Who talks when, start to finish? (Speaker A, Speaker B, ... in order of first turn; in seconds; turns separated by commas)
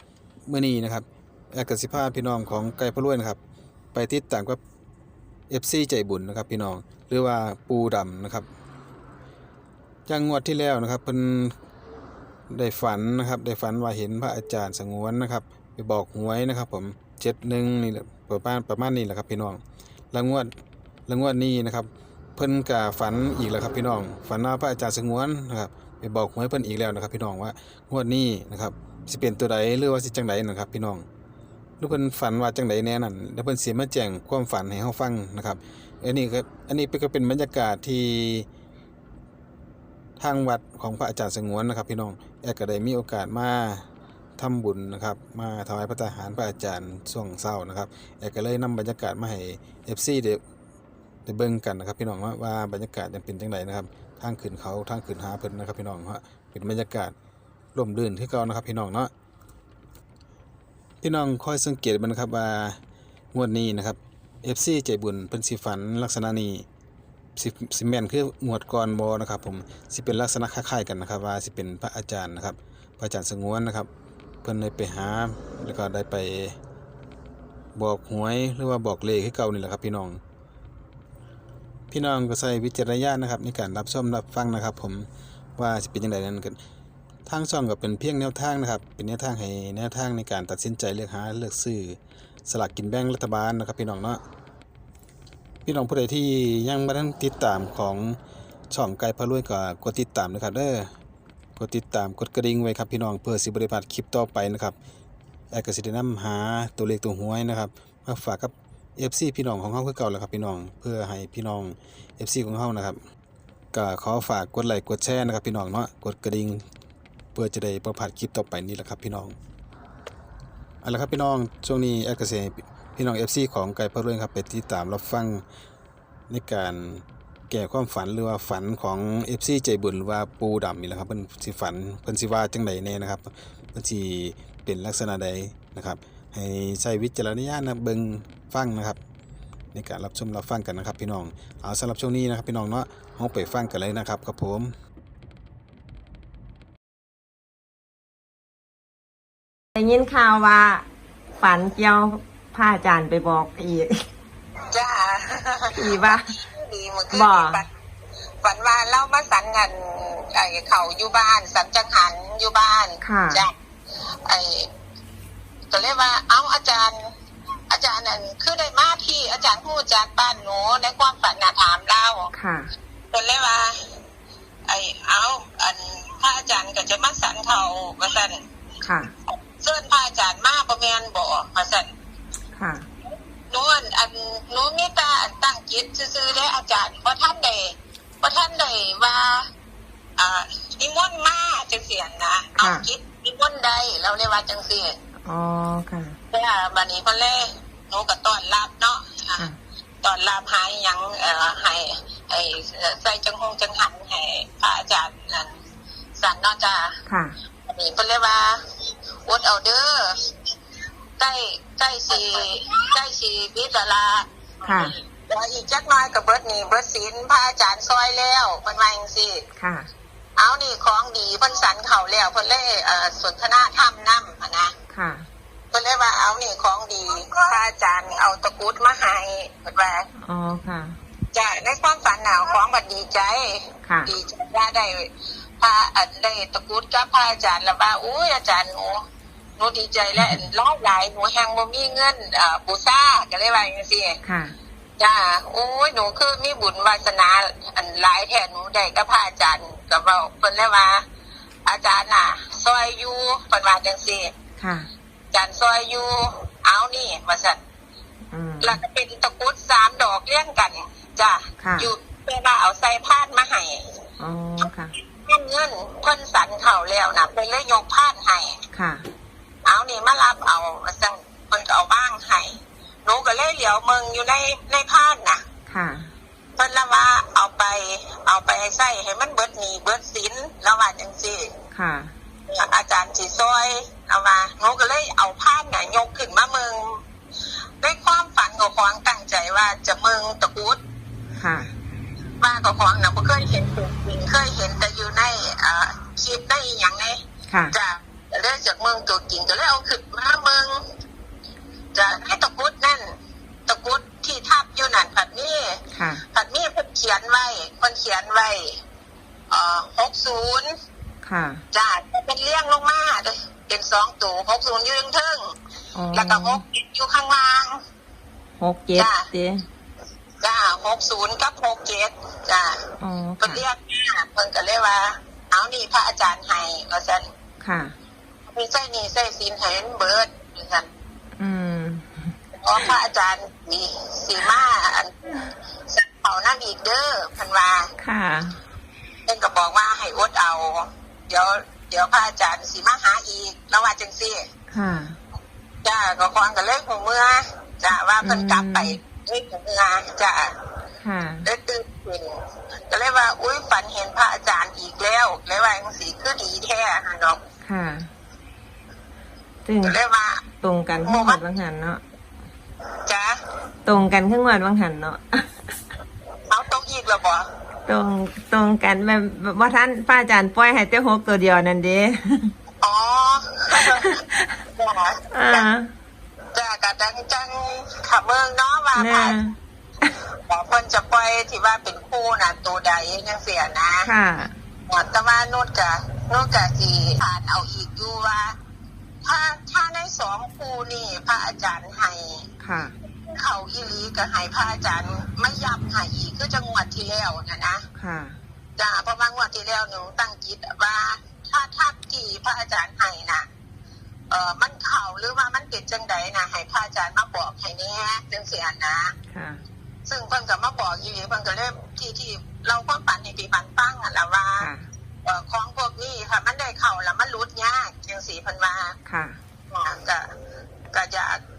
Speaker A: 0.5-3.4, Speaker A: 3.9-4.6, Speaker A: 5.5-8.5, Speaker A: 10.1-11.6, Speaker A: 12.5-20.5, Speaker A: 21.1-31.1, Speaker A: 31.8-38.5, Speaker A: 40.2-43.9, Speaker A: 44.4-50.4, Speaker A: 51.3-57.1, Speaker A: 57.8-59.1, Speaker A: 61.0-62.8, Speaker A: 63.3-66.6, Speaker A: 67.3-73.9, Speaker A: 74.4-76.6, Speaker A: 77.7-80.2, Speaker A: 81.9-86.6, Speaker A: 87.2-94.2, Speaker A: 95.6-98.2, Speaker A: 98.7-100.9, Speaker A: 101.6-104.8, Speaker A: 105.5-113.0, Speaker A: 113.7-116.6, Speaker A: 117.3-119.3, Speaker A: 120.8-125.4, Speaker A: 126.3-139.0, Speaker A: 139.7-144.7, Speaker B: 149.8-150.8, Speaker B: 151.4-154.1, Speaker C: 154.7-157.7, Speaker B: 155.7-156.4, Speaker B: 157.1-157.6, Speaker C: 158.4-164.7, Speaker B: 163.0-163.4, Speaker C: 165.7-167.2, Speaker C: 167.7-172.3, Speaker B: 172.3-172.7, Speaker C: 173.1-174.0, Speaker C: 174.7-178.4, Speaker B: 178.8-179.1, Speaker C: 179.3-181.9, Speaker B: 182.6-182.9, Speaker C: 183.5-189.5, Speaker C: 190.2-194.9, Speaker B: 192.6-192.9, Speaker B: 195.2-196.2, Speaker C: 196.3-199.4, Speaker C: 200.0-205.6, Speaker C: 206.2-207.0, Speaker B: 207.1-207.3, Speaker C: 207.7-208.6, Speaker C: 209.2-210.3, Speaker C: 211.2-219.4, Speaker B: 214.6-214.9, Speaker B: 219.6-219.9, Speaker C: 220.3-224.7, Speaker B: 224.9-225.3, Speaker C: 225.7-230.1, Speaker B: 230.2-231.0, Speaker C: 231.3-239.0, Speaker B: 233.8-234.1, Speaker C: 239.6-244.2, Speaker B: 240.2-240.4, Speaker B: 244.2-244.6, Speaker C: 245.0-251.0, Speaker C: 251.7-254.3, Speaker B: 254.6-254.9, Speaker C: 255.3-257.6, Speaker B: 258.3-258.8, Speaker C: 258.6-264.0, Speaker B: 261.6-261.9, Speaker B: 264.2-264.9, Speaker C: 265.0-268.6, Speaker B: 268.7-269.1, Speaker C: 269.6-275.4, Speaker B: 275.7-276.1, Speaker C: 276.6-281.6, Speaker B: 281.7-282.1, Speaker C: 282.5-287.0, Speaker C: 287.8-290.8, Speaker B: 291.4-291.7, Speaker C: 292.4-300.9, Speaker B: 297.5-297.8, Speaker C: 301.9-303.2, Speaker C: 303.7-308.8, Speaker B: 305.9-306.2, Speaker C: 309.5-310.7, Speaker B: 311.2-311.6, Speaker C: 311.7-315.6, Speaker B: 315.9-316.6, Speaker C: 316.1-317.8, Speaker B: 318.6-319.6, Speaker C: 318.9-319.3, Speaker C: 320.4-327.3, Speaker B: 323.0-323.6, Speaker B: 327.6-327.9, Speaker C: 328.5-330.9, Speaker B: 331.4-332.9, Speaker C: 332.5-335.4, Speaker C: 335.9-337.9, Speaker B: 338.0-338.6, Speaker C: 339.2-344.5, Speaker B: 344.7-345.2, Speaker C: 345.8-350.6, Speaker B: 348.2-349.0, Speaker B: 351.0-351.5, Speaker C: 351.4-357.4, Speaker B: 357.6-358.1, Speaker B: 359.6-360.0, Speaker C: 359.8-360.4, Speaker B: 360.6-362.0, Speaker C: 361.1-361.4, Speaker C: 363.1-363.4, Speaker B: 363.9-365.8, Speaker C: 366.5-367.5, Speaker B: 367.9-372.5, Speaker C: 372.8-374.1, Speaker B: 373.8-374.6, Speaker C: 374.7-375.7, Speaker B: 375.3-375.9, Speaker C: 376.5-379.4, Speaker B: 379.0-380.1, Speaker C: 380.2-384.1, Speaker B: 384.1-384.6, Speaker C: 384.9-388.6, Speaker C: 389.2-392.5, Speaker B: 392.6-393.0, Speaker C: 393.0-397.9, Speaker B: 397.9-398.4, Speaker C: 398.8-403.5, Speaker C: 404.3-409.2, Speaker B: 409.3-409.6, Speaker C: 410.1-414.7, Speaker B: 414.6-414.9, Speaker C: 415.2-419.0, Speaker B: 419.1-419.4, Speaker C: 419.7-420.4, Speaker C: 420.9-421.4